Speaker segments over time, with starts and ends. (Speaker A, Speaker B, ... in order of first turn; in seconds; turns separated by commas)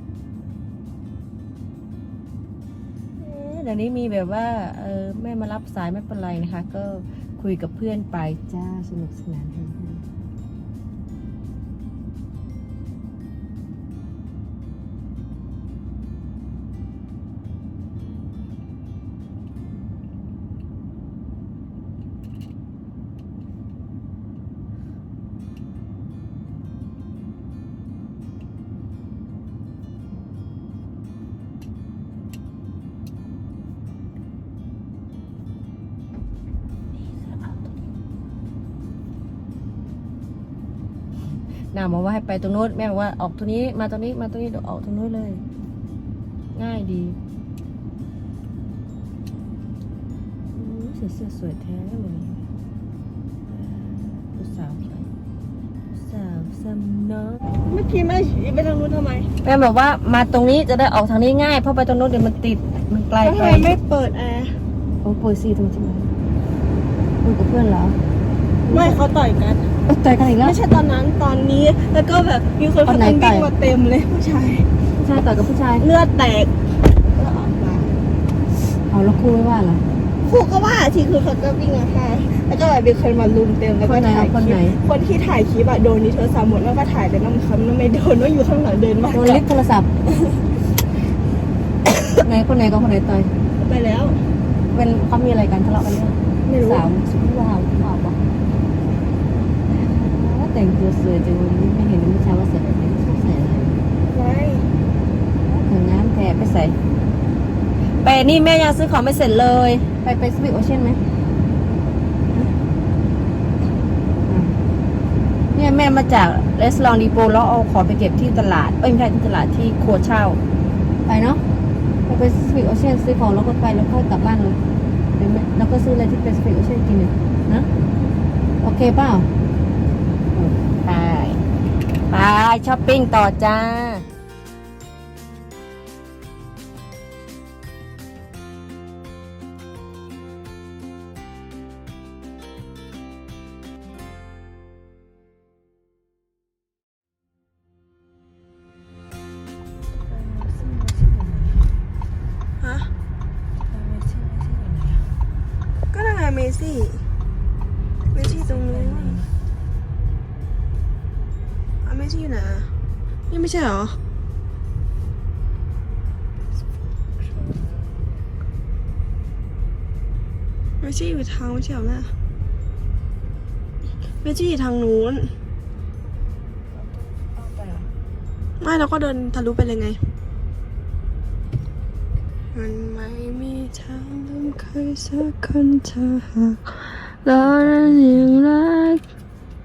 Speaker A: 3.2-10.1, Speaker A: 36.9-37.9, Speaker A: 41.7-45.4, Speaker A: 46.5-47.2, Speaker A: 50.5-52.5, Speaker A: 53.5-55.1, Speaker A: 55.9-57.4, Speaker B: 57.7-59.3, Speaker A: 59.4-63.8, Speaker B: 63.2-64.5, Speaker A: 65.0-66.2, Speaker A: 67.2-68.0, Speaker A: 68.7-69.0, Speaker B: 68.7-69.7, Speaker A: 69.9-70.6, Speaker B: 70.4-74.7, Speaker A: 72.9-73.5, Speaker A: 75.0-75.9, Speaker B: 75.8-78.0, Speaker A: 78.7-79.8, Speaker B: 80.2-89.4, Speaker A: 83.8-84.8, Speaker A: 89.1-89.9, Speaker A: 92.2-93.3, Speaker B: 93.6-94.2, Speaker A: 94.7-98.2, Speaker B: 96.5-96.9, Speaker A: 99.7-103.8, Speaker B: 104.1-104.7, Speaker A: 105.5-106.8, Speaker A: 108.0-111.0, Speaker A: 114.3-114.5, Speaker A: 115.5-120.4, Speaker A: 121.1-121.4, Speaker A: 122.1-124.6, Speaker A: 125.2-127.7, Speaker A: 128.6-129.3, Speaker A: 130.3-131.4, Speaker A: 132.1-134.1, Speaker A: 150.0-151.7, Speaker B: 152.6-152.9, Speaker A: 153.7-155.1, Speaker B: 155.9-157.1, Speaker B: 158.1-159.2, Speaker A: 158.2-159.3, Speaker B: 161.8-162.7, Speaker B: 163.3-164.0, Speaker A: 167.2-167.8, Speaker B: 170.8-172.1, Speaker B: 174.2-175.3, Speaker A: 176.7-177.9, Speaker B: 178.6-180.0, Speaker B: 182.5-189.0, Speaker A: 187.4-188.4